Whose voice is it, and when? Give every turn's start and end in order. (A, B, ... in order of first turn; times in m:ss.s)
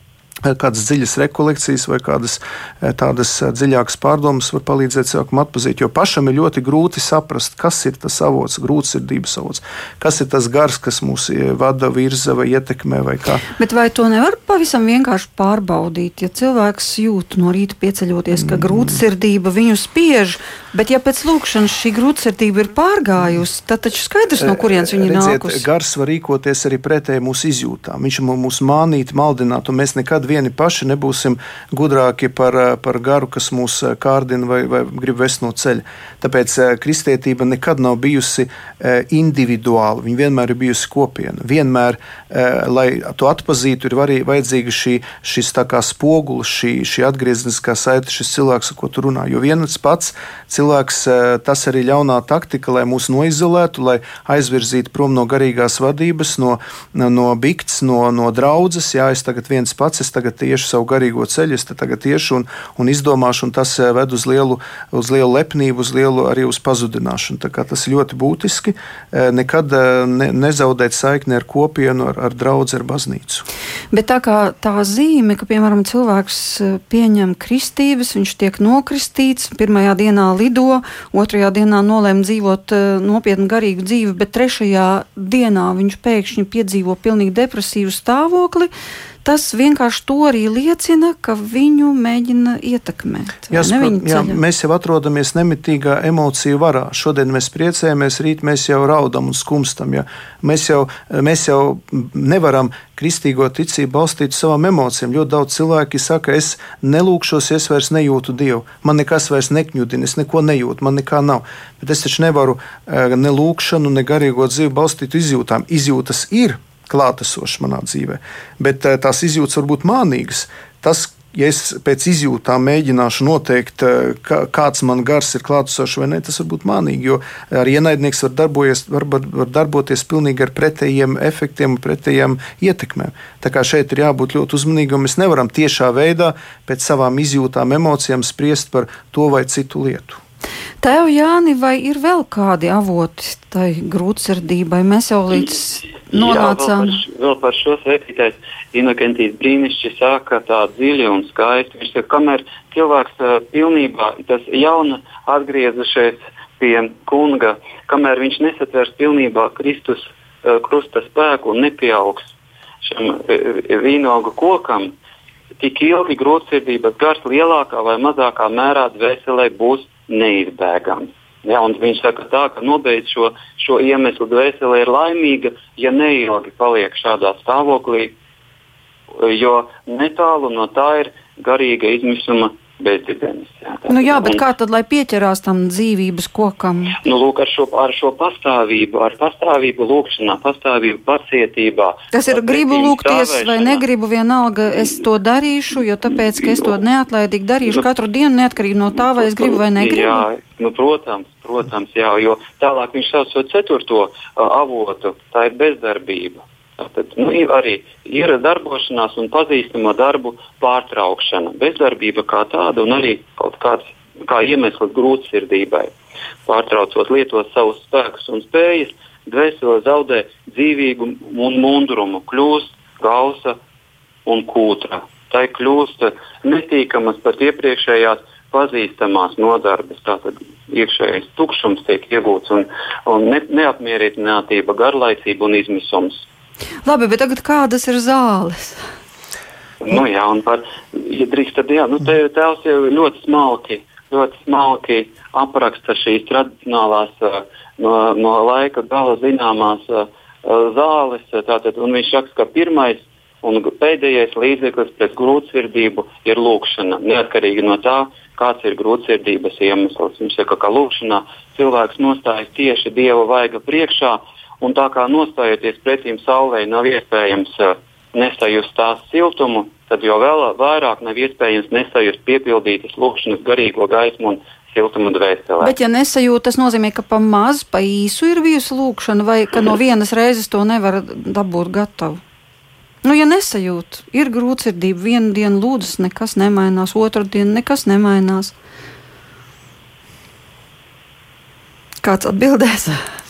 0:00.4-0:13.4 A
0:13.6-0:25.6 B
0:18.4-0:19.0 A
0:24.4-1:13.4 A
1:13.9-1:28.7 B
1:29.2-1:34.4 B
1:33.5-2:20.2 A
2:20.8-2:27.0 B
2:26.1-2:42.2 C
2:42.8-2:44.9 C
2:45.6-2:58.1 C
2:59.1-3:04.4 C
3:03.9-3:07.0 B
3:07.0-3:13.8 C
3:12.1-3:20.2 B
3:19.1-3:35.9 C
3:36.4-3:43.6 C
3:44.2-3:56.2 C
3:56.8-3:58.8 B
3:59.8-4:35.7 C
4:35.6-4:42.2 B
4:43.0-4:48.5 B
4:52.0-4:53.0 B